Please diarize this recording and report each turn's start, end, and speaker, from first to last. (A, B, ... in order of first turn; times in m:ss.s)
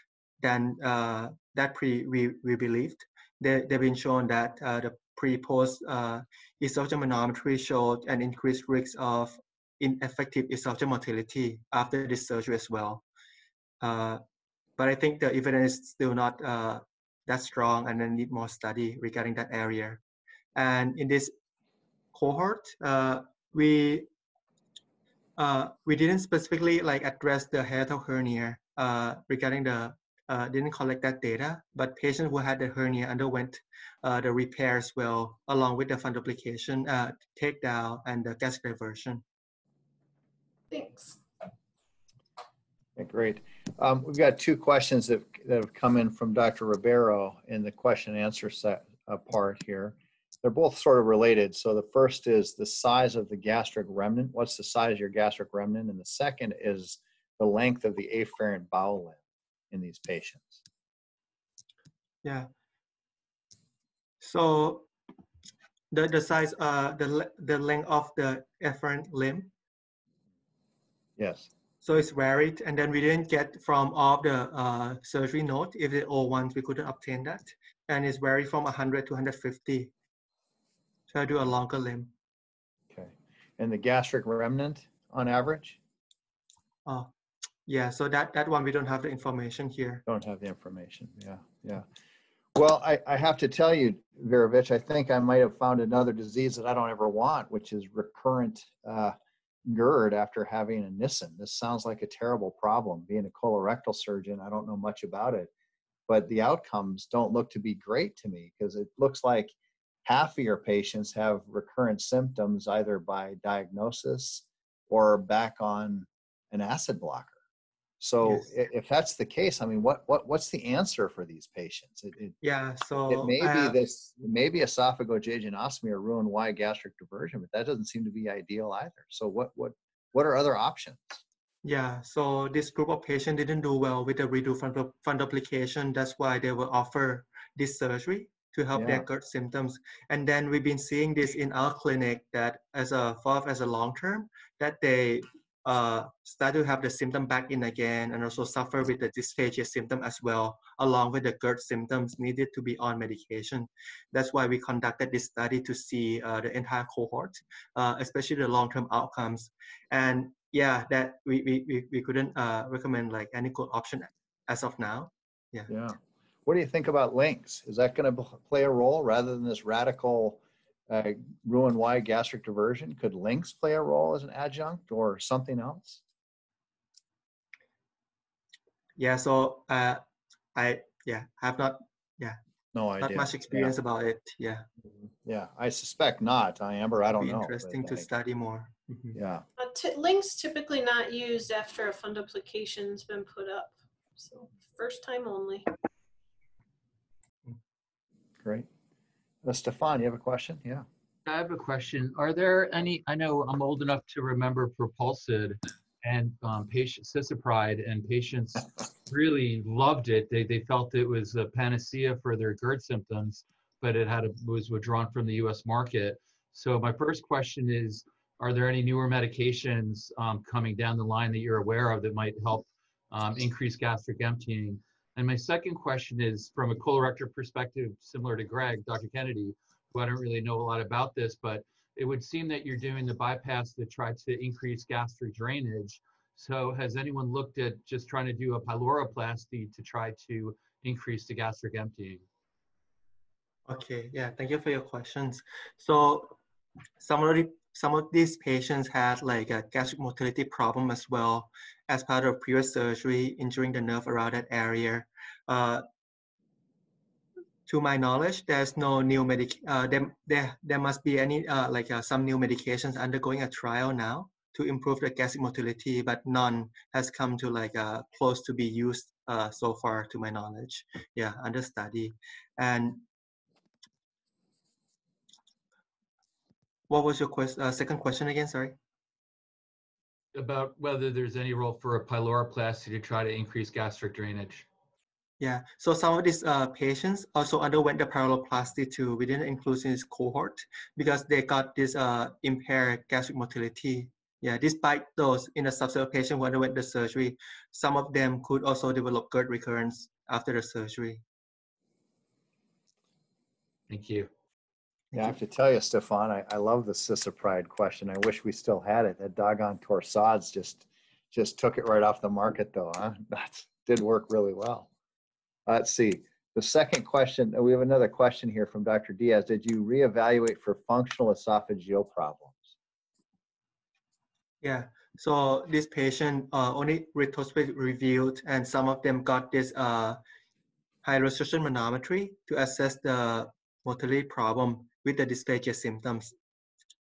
0:00.4-0:13.0 A
0:13.8-0:14.2 A
0:14.8-0:20.0 A
0:20.6-0:21.3 A
0:22.1-0:24.1 A
0:25.4-0:39.2 A
0:40.7-0:41.2 B
0:43.0-1:00.6 C
1:02.2-1:02.5 A
1:04.2-1:04.9 A
1:05.9-1:09.5 A
1:11.2-1:11.5 C
1:11.8-1:19.9 A
1:21.1-1:22.1 A
1:22.9-1:25.8 C
1:27.7-1:30.0 A
1:30.1-1:31.9 C
1:32.6-1:45.5 C
1:46.1-1:49.5 C
1:50.0-1:57.4 C
1:58.0-2:02.4 C
2:02.4-2:03.8 A
2:03.1-2:11.2 C
2:11.6-2:45.7 A
2:18.7-2:19.1 C
2:45.7-2:56.0 C
2:59.0-3:00.0 A
3:00.6-3:02.4 A
3:02.7-3:03.7 C
3:03.0-3:04.6 A
3:04.8-3:08.1 C
3:07.2-3:09.2 A
3:09.2-3:09.4 C
3:09.6-3:15.7 B
3:18.4-3:18.7 C
3:19.4-3:20.8 C
3:21.3-4:02.2 D
4:03.7-4:06.4 A
4:07.0-4:15.8 A
4:17.7-4:33.0 A
4:36.9-4:38.8 A
4:40.4-4:44.7 D
4:45.4-5:01.2 A
5:03.9-5:04.3 D
5:05.1-5:14.9 C
5:15.7-5:22.8 C
5:24.6-5:30.2 A
5:31.0-5:36.3 A